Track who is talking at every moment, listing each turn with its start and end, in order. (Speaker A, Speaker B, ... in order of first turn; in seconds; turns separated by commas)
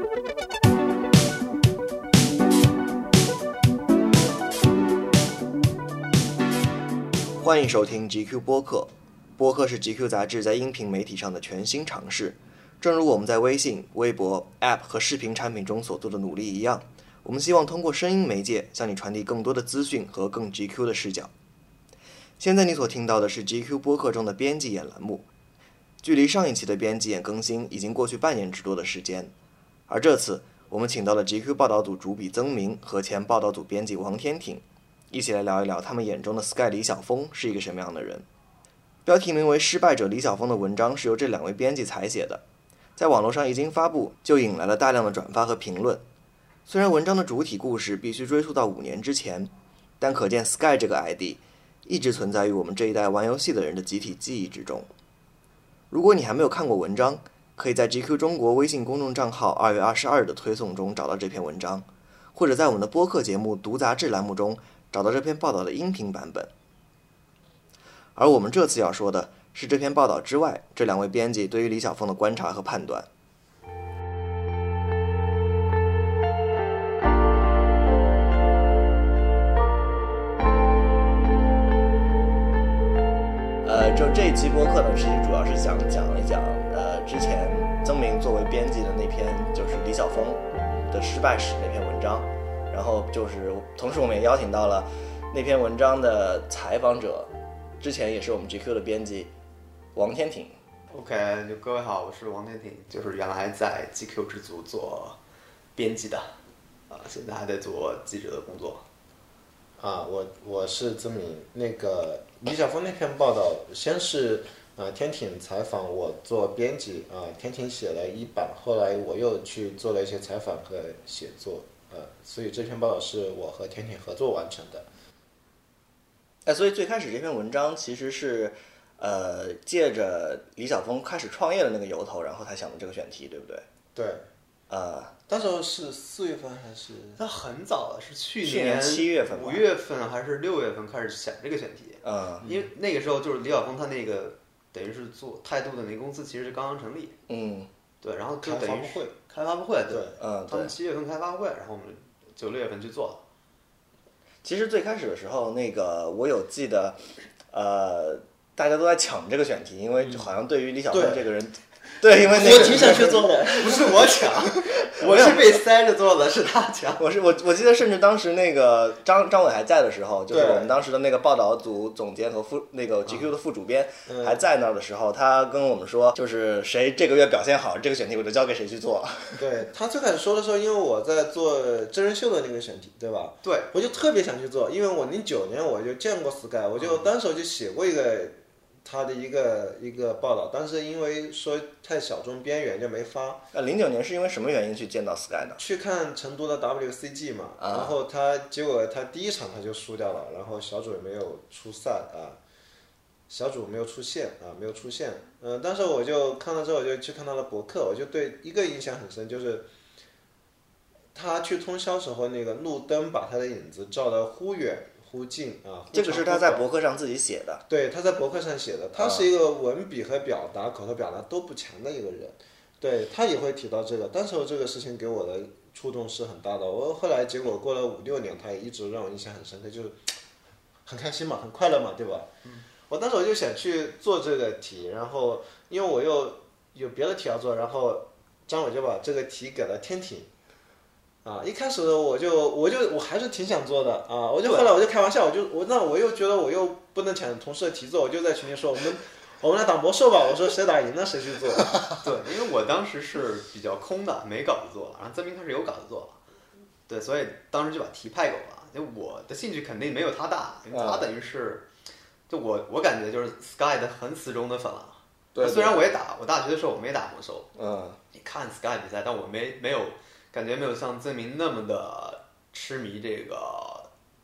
Speaker A: 7.4-21.3, Speaker A: 22.4-25.3, Speaker A: 26.0-29.3, Speaker A: 29.9-38.3, Speaker A: 39.1-42.4, Speaker A: 43.0-46.0, Speaker A: 46.7-54.9, Speaker A: 55.9-66.5, Speaker A: 68.2-73.1, Speaker A: 83.6-99.3, Speaker A: 100.0-100.6, Speaker B: 100.9-105.2, Speaker B: 105.8-106.4, Speaker B: 106.9-108.8, Speaker C: 109.8-124.9, Speaker A: 126.5-133.7, Speaker C: 133.9-134.3, Speaker A: 134.7-135.2, Speaker C: 135.3-137.2, Speaker B: 137.2-147.2, Speaker A: 138.4-139.7, Speaker A: 142.0-142.4, Speaker A: 147.3-147.7, Speaker B: 148.0-153.2, Speaker C: 148.4-149.1, Speaker C: 149.9-150.2, Speaker A: 150.2-150.7, Speaker A: 154.4-163.3, Speaker C: 160.0-160.3, Speaker C: 160.9-161.3, Speaker C: 162.1-164.5, Speaker B: 162.3-167.0, Speaker A: 164.7-165.5, Speaker A: 167.0-179.4, Speaker C: 170.3-170.7, Speaker C: 174.1-174.4, Speaker C: 179.4-193.4, Speaker B: 183.4-183.7, Speaker B: 186.8-187.1, Speaker A: 193.5-195.6, Speaker C: 195.6-202.4, Speaker A: 197.6-198.0, Speaker C: 203.3-209.7, Speaker C: 211.1-216.7, Speaker A: 215.9-217.6, Speaker C: 217.7-230.0, Speaker A: 219.0-219.3, Speaker C: 230.9-232.3, Speaker C: 232.9-240.3, Speaker C: 241.2-251.8, Speaker B: 244.4-244.7, Speaker B: 252.0-256.2, Speaker B: 256.9-261.7, Speaker A: 260.7-261.1, Speaker B: 262.3-267.5, Speaker A: 265.4-265.9, Speaker A: 267.6-268.0, Speaker B: 268.1-273.9